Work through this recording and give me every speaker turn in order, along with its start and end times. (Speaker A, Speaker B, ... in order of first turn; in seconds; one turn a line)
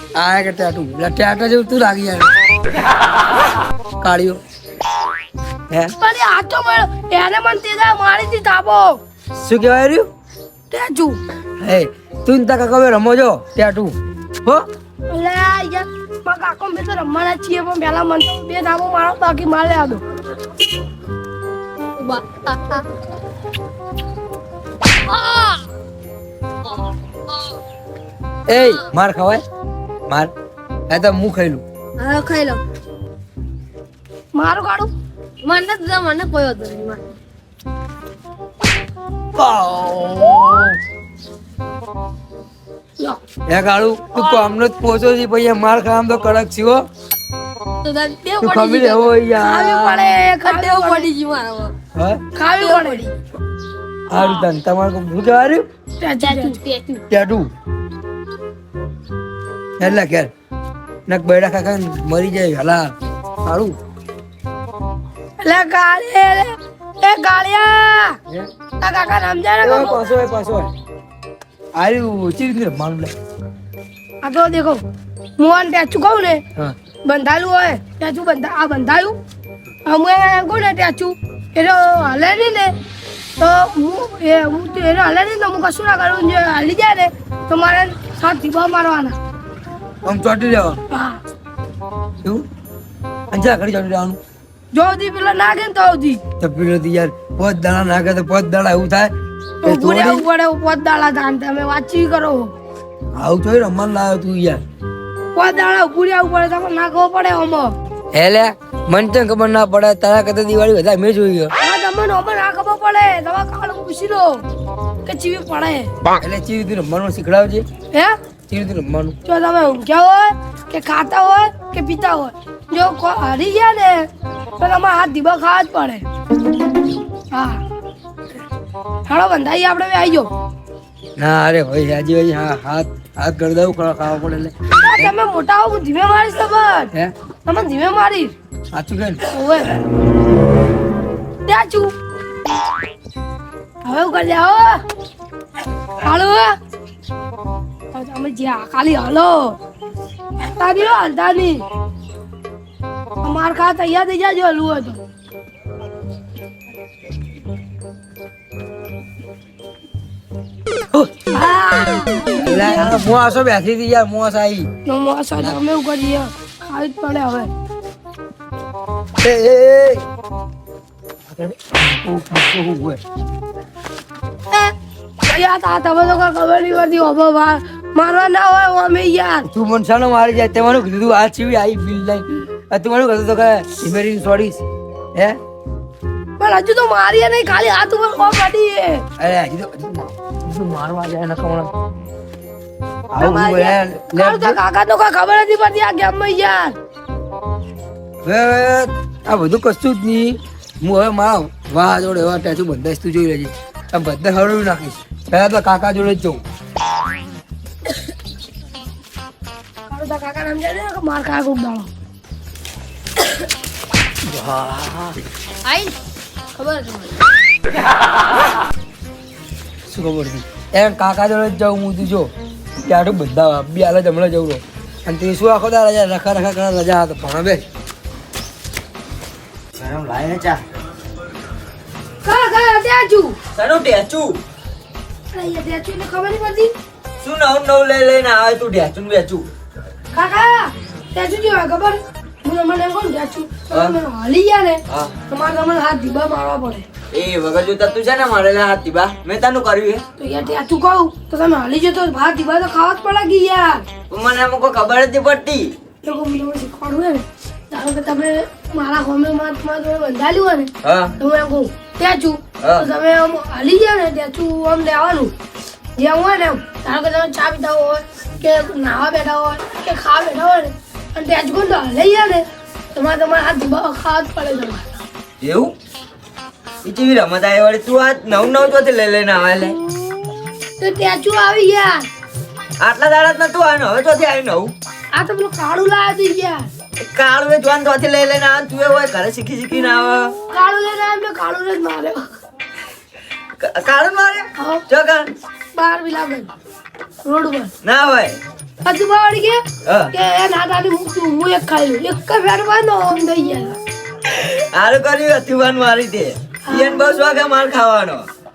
Speaker A: 0.1-2.3
Speaker A: 4.0-4.4
Speaker B: 6.0-9.0
Speaker A: 9.4-10.1
Speaker B: 10.7-11.2
Speaker A: 11.6-14.7
Speaker B: 15.1-20.0
Speaker C: 22.0-22.9
Speaker C: 25.0-25.7
Speaker A: 28.5-29.4
Speaker A: 30.9-31.6
Speaker C: 32.0-32.6
Speaker B: 34.4-34.9
Speaker C: 35.4-37.0
Speaker A: 39.4-40.8
Speaker A: 43.5-46.9
Speaker C: 47.8-48.6
Speaker B: 48.3-51.1
Speaker A: 48.4-50.1
Speaker C: 50.4-51.7
Speaker A: 51.9-52.2
Speaker B: 52.4-53.0
Speaker C: 52.5-53.1
Speaker A: 54.1-55.6
Speaker C: 54.1-54.4
Speaker B: 56.0-56.6
Speaker C: 56.2-57.0
Speaker A: 57.1-57.5
Speaker A: 59.8-60.3
Speaker A: 61.1-62.9
Speaker A: 63.4-63.8
Speaker B: 65.4-68.2
Speaker B: 68.8-70.0
Speaker A: 69.6-70.7
Speaker A: 71.8-73.1
Speaker B: 74.2-74.8
Speaker B: 75.4-76.4
Speaker B: 77.0-79.2
Speaker B: 79.8-82.7
Speaker B: 83.4-89.2
Speaker A: 90.0-90.8
Speaker B: 90.9-91.2
Speaker A: 93.3-94.2
Speaker B: 94.7-96.2
Speaker A: 96.4-99.1
Speaker B: 99.6-102.5
Speaker A: 99.6-100.2
Speaker A: 103.2-104.6
Speaker B: 105.3-107.7
Speaker A: 108.1-111.5
Speaker B: 111.6-114.4
Speaker B: 115.0-115.9
Speaker A: 116.1-117.7
Speaker A: 118.5-119.2
Speaker B: 119.2-124.1
Speaker B: 124.6-126.0
Speaker B: 127.3-127.6
Speaker B: 129.1-130.3
Speaker A: 131.2-135.1
Speaker B: 134.8-136.9
Speaker B: 137.4-138.3
Speaker A: 138.7-139.2
Speaker B: 139.2-139.7
Speaker B: 141.4-141.9
Speaker B: 143.8-144.8
Speaker B: 146.0-146.6
Speaker B: 147.9-149.6
Speaker B: 150.4-151.6
Speaker B: 153.2-155.0
Speaker B: 161.3-163.0
Speaker A: 162.4-164.7
Speaker B: 164.8-167.5
Speaker A: 169.2-170.0
Speaker A: 171.3-173.0
Speaker B: 175.2-179.5
Speaker A: 179.5-184.6
Speaker B: 186.4-189.0
Speaker A: 189.2-191.7
Speaker A: 193.1-194.6
Speaker B: 193.1-196.8
Speaker A: 198.2-206.4
Speaker B: 209.9-211.9
Speaker A: 214.2-215.2
Speaker C: 215.6-215.9
Speaker C: 216.6-217.1
Speaker A: 219.9-222.3
Speaker A: 222.8-227.6
Speaker D: 229.8-230.6
Speaker B: 232.2-233.3
Speaker D: 233.5-234.4
Speaker B: 235.3-236.7
Speaker D: 237.2-239.5
Speaker B: 240.1-246.8
Speaker D: 247.1-250.0
Speaker B: 250.2-253.8
Speaker D: 254.1-255.7
Speaker B: 256.0-265.3
Speaker D: 260.8-261.1
Speaker D: 262.6-262.9
Speaker B: 266.0-275.0
Speaker D: 275.4-275.7
Speaker D: 276.8-279.8
Speaker B: 280.8-282.1
Speaker D: 282.8-284.7
Speaker B: 285.1-286.7
Speaker D: 287.0-290.3
Speaker B: 290.5-292.2
Speaker D: 293.6-295.3
Speaker B: 294.6-294.8
Speaker B: 295.7-296.5
Speaker B: 297.2-297.7
Speaker D: 297.8-298.4
Speaker B: 298.8-299.6
Speaker D: 299.8-300.1
Speaker B: 300.1-303.8
Speaker D: 304.3-308.3
Speaker B: 306.7-307.3